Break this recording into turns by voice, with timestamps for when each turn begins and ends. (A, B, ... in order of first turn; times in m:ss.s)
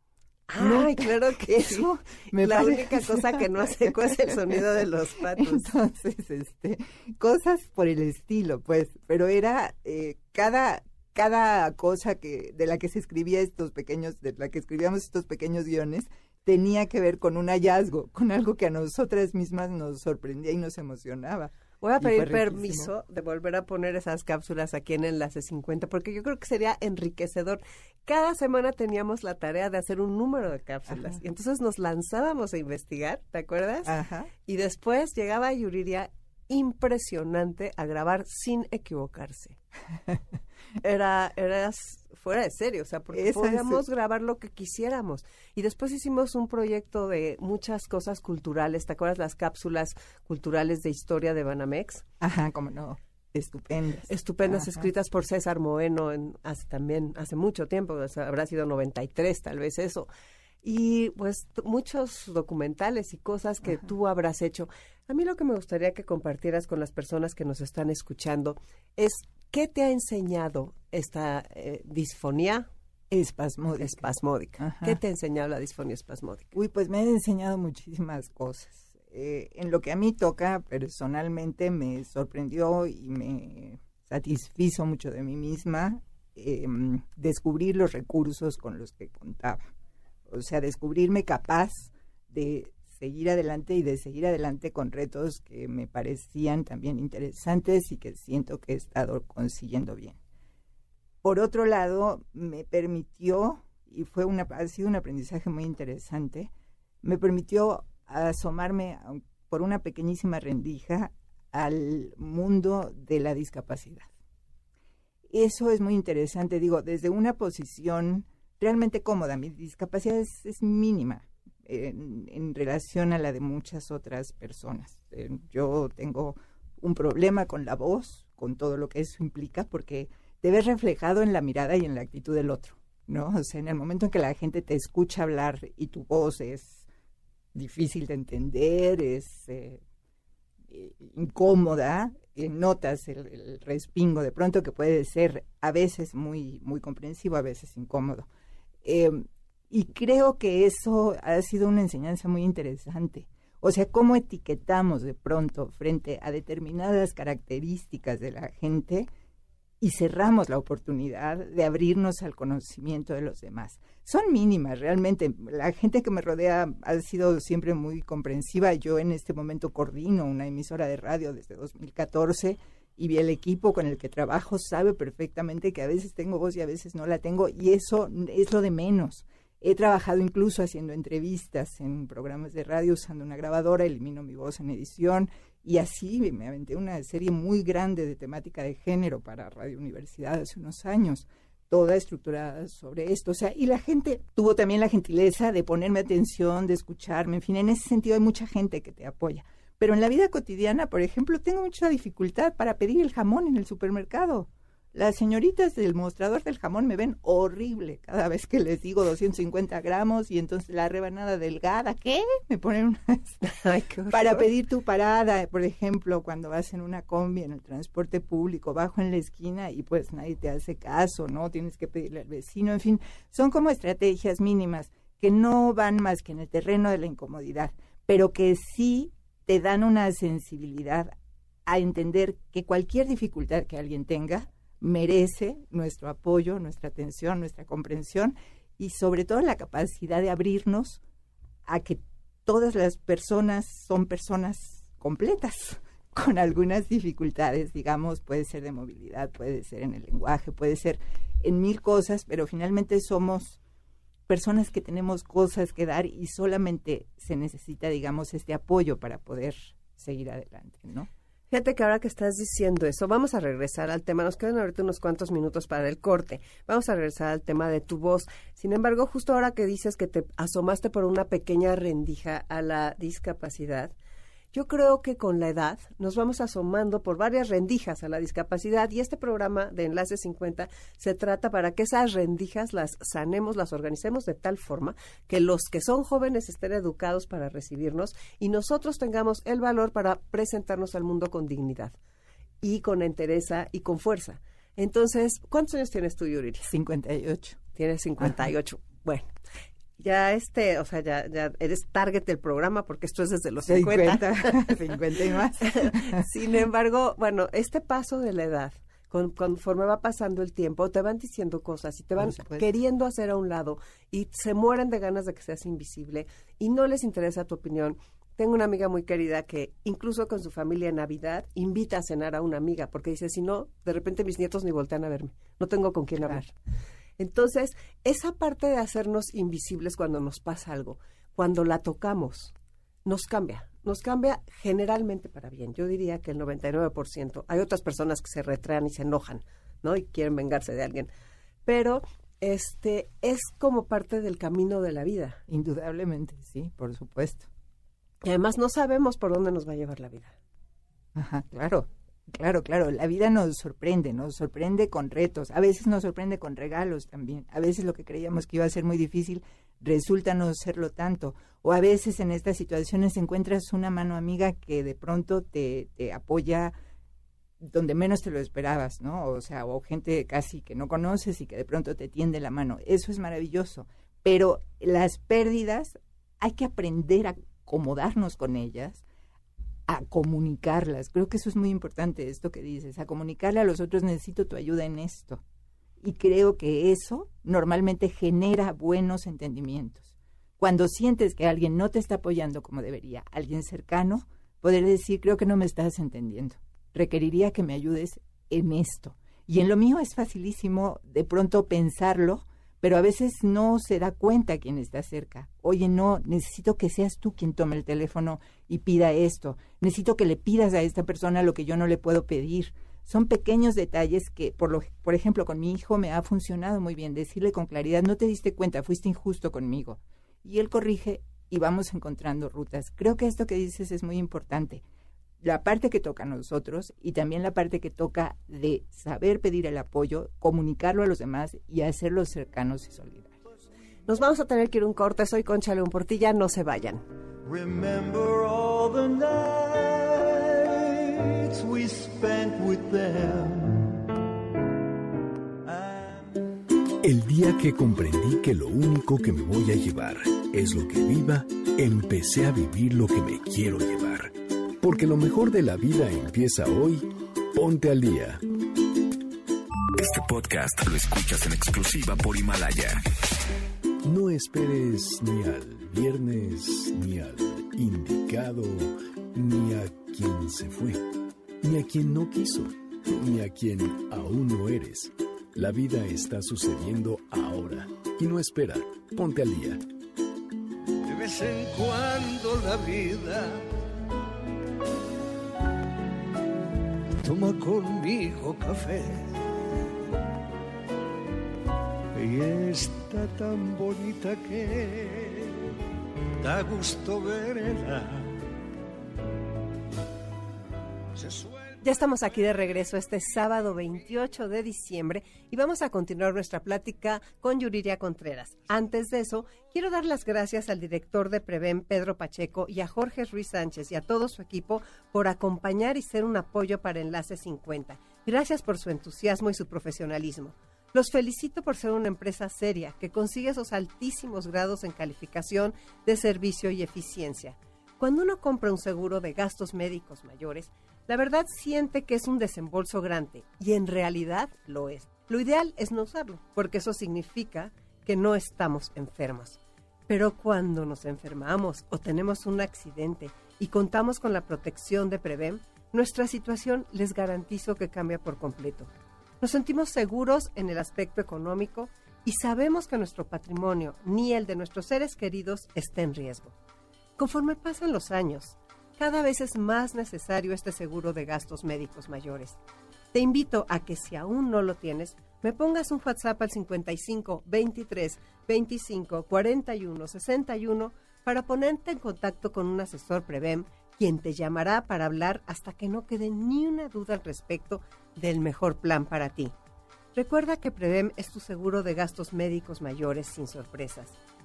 0:00.5-0:05.7 A
0:00.6-0:04.6 B
0:05.3-0:22.9 B
0:21.8-0:33.9 A
0:33.9-0:34.3 B
0:34.5-0:39.6 A
0:40.8-0:52.0 A
0:43.1-0:43.8 B
0:52.2-0:54.9 B
0:54.1-1:00.1 A
1:00.6-1:12.7 A
1:13.1-1:15.0 B
1:13.8-1:16.6 A
1:16.5-1:29.7 B
1:30.3-1:40.2 B
1:41.2-1:46.5 B
1:47.0-1:54.1 B
1:55.3-2:16.9 B
2:17.5-2:19.8 B
2:20.7-2:28.3 B
2:28.8-2:39.1 B
2:39.8-3:33.4 B
3:33.4-3:34.5 A
3:34.1-3:51.1 B
3:51.7-4:01.0 B
4:01.7-4:13.6 B
4:14.3-4:21.1 B
4:21.5-4:33.9 A
4:34.5-4:52.0 A
4:52.6-4:56.7 A
4:56.6-4:57.6 B
4:57.8-4:59.3 A
5:00.0-5:04.8 A
5:03.7-5:06.2 B
5:05.6-5:26.5 A
5:12.2-5:12.7 B
5:27.2-5:32.5 A
5:33.0-5:41.1 A
5:41.7-5:45.4 A
5:45.5-5:47.5 B
5:48.2-5:50.4 A
5:51.2-6:06.7 B
6:07.6-6:19.0 B
6:19.9-6:25.4 B
6:26.0-7:04.8 B
7:05.4-7:13.4 B
7:14.1-7:17.0 A
7:17.4-7:24.1 C
7:25.6-7:26.4 C
7:27.0-7:38.4 D
7:40.0-7:43.0 E
7:44.0-7:51.1 D
7:51.6-7:59.8 D
8:01.1-8:03.7 F
8:07.2-8:09.4 F
8:12.2-8:15.6 F
8:16.4-8:18.4 F
8:21.2-8:21.6 F
8:21.8-9:16.6 A
9:17.2-9:22.6 A
9:23.1-9:39.5 A
9:40.2-9:44.2 A